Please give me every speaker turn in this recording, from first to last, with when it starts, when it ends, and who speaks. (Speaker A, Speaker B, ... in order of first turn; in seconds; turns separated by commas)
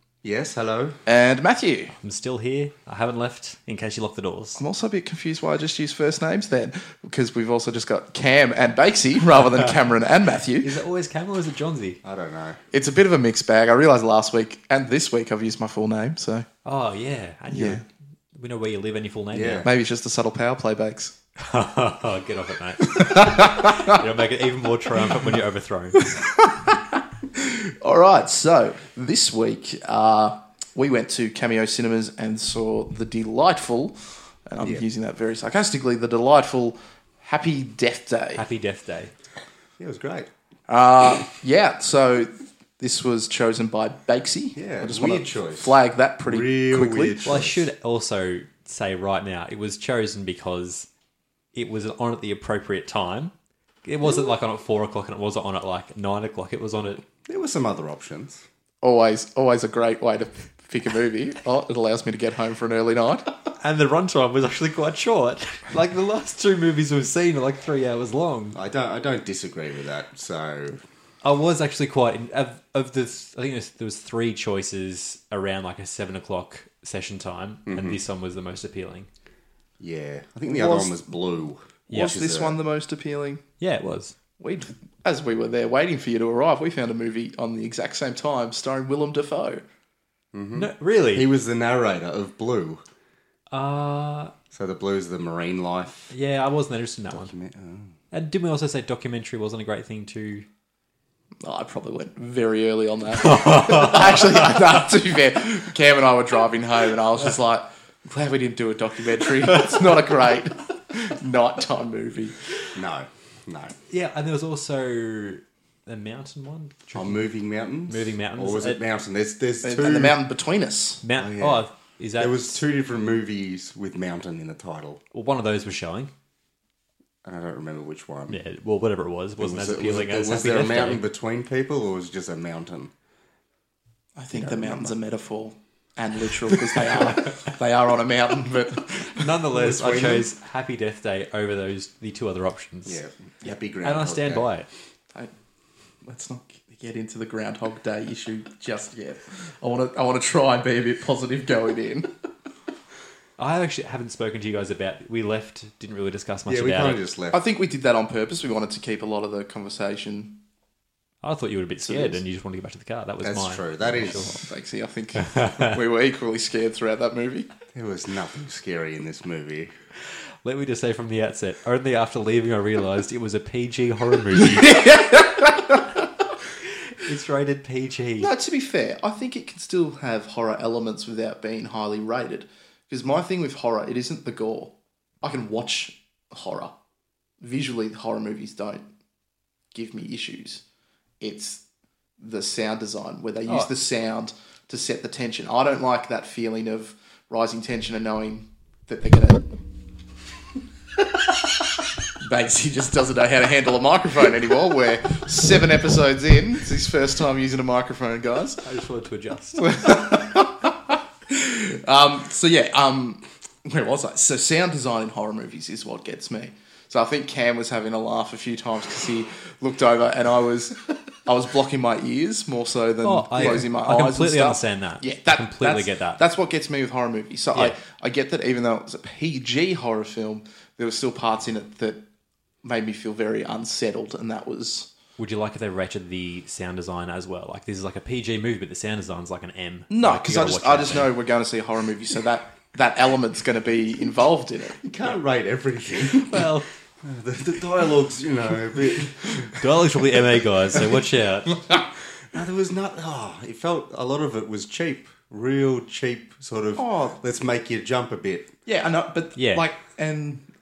Speaker A: 0.2-1.0, Speaker B: 1.1-1.9, Speaker C: 2.0-4.6, Speaker B: 4.6-10.8, Speaker C: 10.6-12.0, Speaker A: 12.0-12.6, Speaker B: 12.7-16.5, Speaker C: 16.6-19.7, Speaker B: 17.5-17.8, Speaker A: 19.3-19.7, Speaker B: 19.6-21.1, Speaker C: 21.4-26.1, Speaker B: 22.8-24.0, Speaker B: 26.0-38.4, Speaker C: 38.4-39.1, Speaker A: 39.8-40.3, Speaker B: 40.7-47.2, Speaker A: 44.6-47.7, Speaker C: 47.2-50.9, Speaker C: 51.5-57.0, Speaker A: 57.2-58.5, Speaker B: 58.8-63.4, Speaker C: 63.6-68.6, Speaker A: 68.5-70.8, Speaker C: 71.2-79.1, Speaker A: 77.7-78.0, Speaker A: 79.8-82.6, Speaker B: 80.5-81.0, Speaker B: 81.9-83.4, Speaker C: 81.9-82.2, Speaker C: 83.6-84.2, Speaker B: 84.4-89.6, Speaker A: 90.3-92.8, Speaker C: 90.5-91.3, Speaker C: 93.5-94.3, Speaker A: 94.5-96.1, Speaker C: 96.1-97.3, Speaker A: 97.1-98.0, Speaker C: 98.1-100.5, Speaker B: 101.4-112.4, Speaker C: 103.3-104.0, Speaker A: 112.8-113.8, Speaker C: 113.9-117.2, Speaker A: 117.0-120.2, Speaker C: 117.9-118.8, Speaker B: 119.6-121.0, Speaker C: 121.0-122.6, Speaker A: 121.2-121.6, Speaker A: 122.2-125.0, Speaker C: 125.1-126.1, Speaker A: 127.2-128.4, Speaker C: 128.3-131.0, Speaker A: 129.4-132.9, Speaker B: 134.2-139.3, Speaker A: 134.3-134.9, Speaker C: 139.1-143.0, Speaker A: 139.5-140.3, Speaker A: 142.9-144.5, Speaker C: 143.8-144.7, Speaker B: 146.0-152.1, Speaker C: 153.4-157.0, Speaker A: 156.5-157.4, Speaker B: 157.3-160.4, Speaker C: 161.2-164.3, Speaker B: 161.9-162.2, Speaker A: 163.2-164.3, Speaker B: 164.0-167.5, Speaker A: 167.7-169.7, Speaker C: 170.4-175.0, Speaker B: 174.6-175.9, Speaker C: 177.0-178.3, Speaker B: 178.2-186.7, Speaker B: 187.4-188.9, Speaker B: 189.7-190.6, Speaker B: 191.2-191.6, Speaker B: 192.2-199.5, Speaker B: 202.2-208.6, Speaker C: 208.6-210.2, Speaker B: 209.6-232.0, Speaker C: 223.0-226.2, Speaker A: 223.4-223.7, Speaker B: 232.6-234.9, Speaker C: 235.2-241.1, Speaker B: 239.9-244.8, Speaker A: 244.8-250.1, Speaker C: 246.2-246.7, Speaker C: 249.5-251.6, Speaker A: 252.2-258.5, Speaker B: 256.8-257.2, Speaker B: 258.7-260.5, Speaker C: 259.4-259.6